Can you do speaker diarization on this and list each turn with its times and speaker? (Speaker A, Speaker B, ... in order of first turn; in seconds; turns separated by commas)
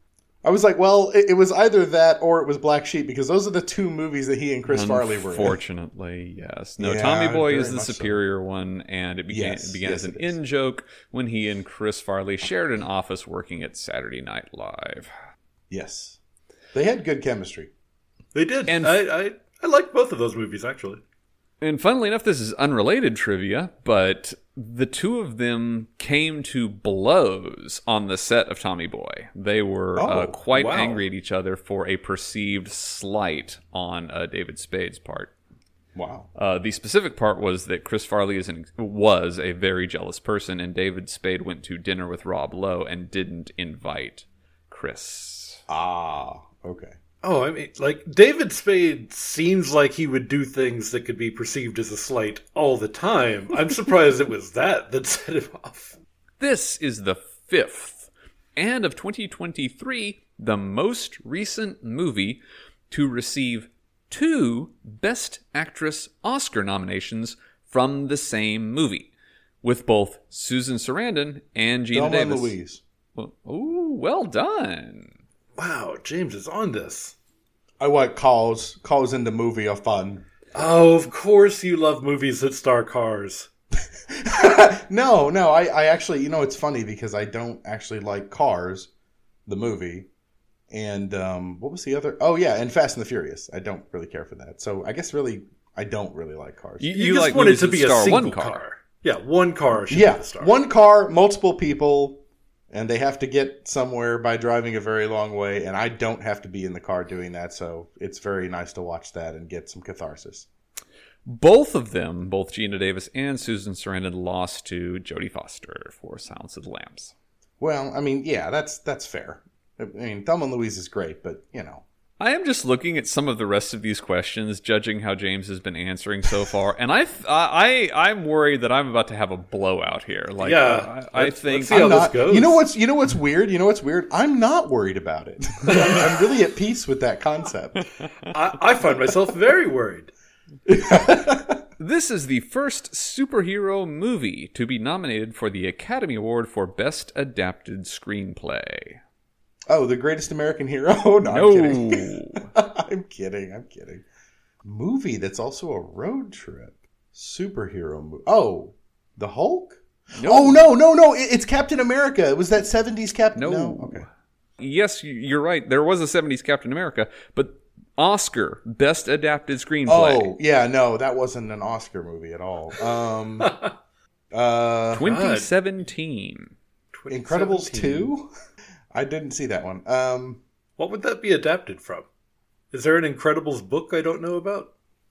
Speaker A: 0.4-5.6, Speaker B: 4.7-15.1, Speaker A: 6.8-8.2, Speaker A: 9.3-10.4, Speaker A: 15.7-16.2, Speaker A: 16.7-17.7, Speaker C: 18.3-21.0, Speaker B: 18.7-19.0, Speaker B: 21.6-35.3, Speaker A: 30.0-30.4, Speaker C: 30.5-31.0, Speaker A: 36.0-36.3, Speaker B: 36.4-45.6, Speaker A: 45.7-47.0, Speaker C: 47.2-56.0, Speaker B: 56.4-69.1, Speaker B: 69.6-72.5, Speaker A: 71.9-72.8, Speaker B: 73.2-75.1, Speaker C: 75.5-77.1, Speaker A: 77.8-80.2, Speaker C: 80.5-83.5, Speaker A: 84.1-88.9, Speaker A: 89.5-90.1, Speaker A: 90.7-96.9, Speaker B: 96.8-98.6, Speaker C: 96.9-100.5, Speaker A: 99.9-110.5, Speaker B: 111.2-117.1, Speaker A: 117.6-121.8, Speaker B: 122.2-132.0, Speaker C: 130.4-132.6, Speaker A: 131.7-137.9, Speaker C: 138.3-140.1, Speaker A: 140.7-141.6, Speaker B: 141.8-149.0, Speaker A: 149.7-154.0, Speaker B: 151.3-152.5, Speaker A: 154.6-164.0, Speaker B: 160.1-160.6, Speaker B: 163.3-164.1, Speaker B: 164.6-170.3, Speaker A: 169.9-173.5, Speaker C: 173.4-173.7, Speaker A: 174.3-175.1, Speaker B: 174.9-176.5, Speaker C: 175.0-175.5, Speaker C: 176.9-178.1, Speaker A: 177.1-178.3, Speaker A: 178.9-180.4, Speaker C: 180.8-182.1, Speaker C: 182.7-184.7